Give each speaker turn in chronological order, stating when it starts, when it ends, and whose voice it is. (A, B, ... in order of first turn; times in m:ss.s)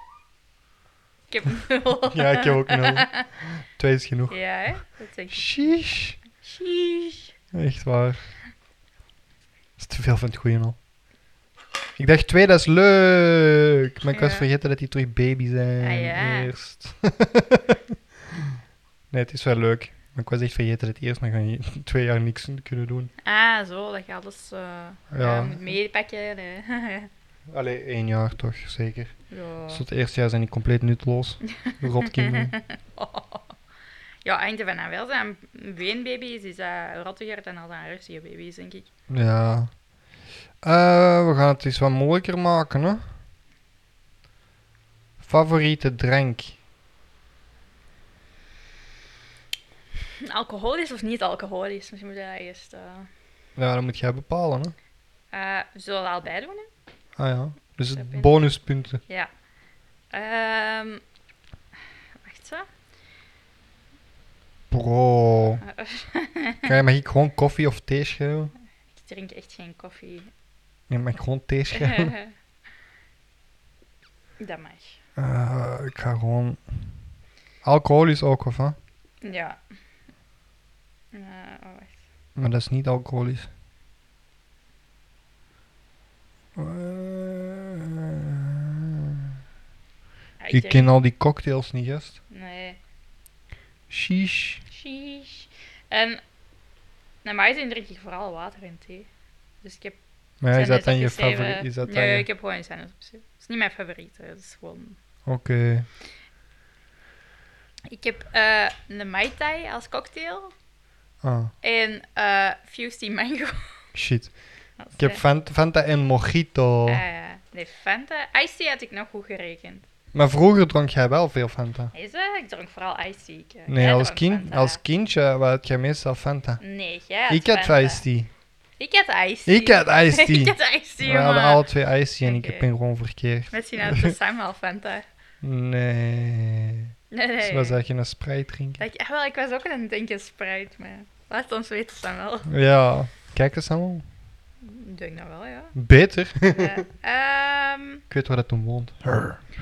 0:01.3-0:03.3 A
0:02.1-0:04.4 B
0:04.3-0:07.3 A
0:05.3-0:06.2 B
0:07.5-0:08.2 B
0:09.8-0:10.8 B
0:12.0-0:17.8 B
0:14.1-0:14.5 A
0:15.8-0:16.5 A
0:19.1-0:23.1 B
0:23.2-0:27.1 A
0:25.1-0:25.8 B
0:27.5-0:29.1 B
0:29.3-0:29.8 A
0:29.7-0:32.5 B
0:31.4-0:33.5 A
0:34.2-0:38.9 A
0:39.1-0:39.7 B
0:40.6-0:43.0 B
0:45.2-0:46.6 B
0:50.2-0:53.1 A
0:53.6-0:54.7 B
0:55.3-0:56.7 A
0:57.2-0:59.0 B
0:57.9-0:58.4 A
1:00.1-1:01.0 A
1:02.2-1:02.7 A
1:04.7-1:05.6 B
1:05.6-1:06.7 A
1:06.6-1:08.5 B
1:08.9-1:10.3 A
1:10.9-1:12.1 B
1:11.7-1:12.3 A
1:14.4-1:15.0 A
1:15.2-1:16.8 B
1:17.6-1:18.8 B
1:19.2-1:19.6 A
1:21.1-1:22.0 A
1:22.4-1:23.5 B
1:26.6-1:29.3 B
1:30.4-1:30.9 A
1:30.5-1:32.2 B
1:32.3-1:32.8 A
1:33.9-1:34.6 B
1:34.7-1:36.2 A
1:37.2-1:39.1 A
1:39.6-1:40.0 A
1:40.4-1:42.3 B
1:40.5-1:45.0 A
1:45.2-1:45.9 B
1:47.9-1:50.5 A
1:51.2-1:51.5 B
1:51.6-1:53.6 A
1:53.9-1:54.4 B
1:54.8-1:55.2 A
1:54.9-1:57.0 B
1:56.8-1:59.8 A
2:00.1-2:01.9 B
2:01.9-2:04.8 A
2:03.7-2:06.6 B
2:06.6-2:08.0 A
2:07.3-2:08.3 B
2:08.8-2:11.7 A
2:09.4-2:14.1 B
2:12.2-2:12.6 A
2:13.5-2:15.0 A
2:15.4-2:18.8 B
2:17.1-2:17.8 A
2:18.8-2:22.5 A
2:22.5-2:24.1 B
2:24.6-2:25.7 A
2:25.7-2:26.8 B
2:26.5-2:28.0 A
2:28.1-2:29.4 B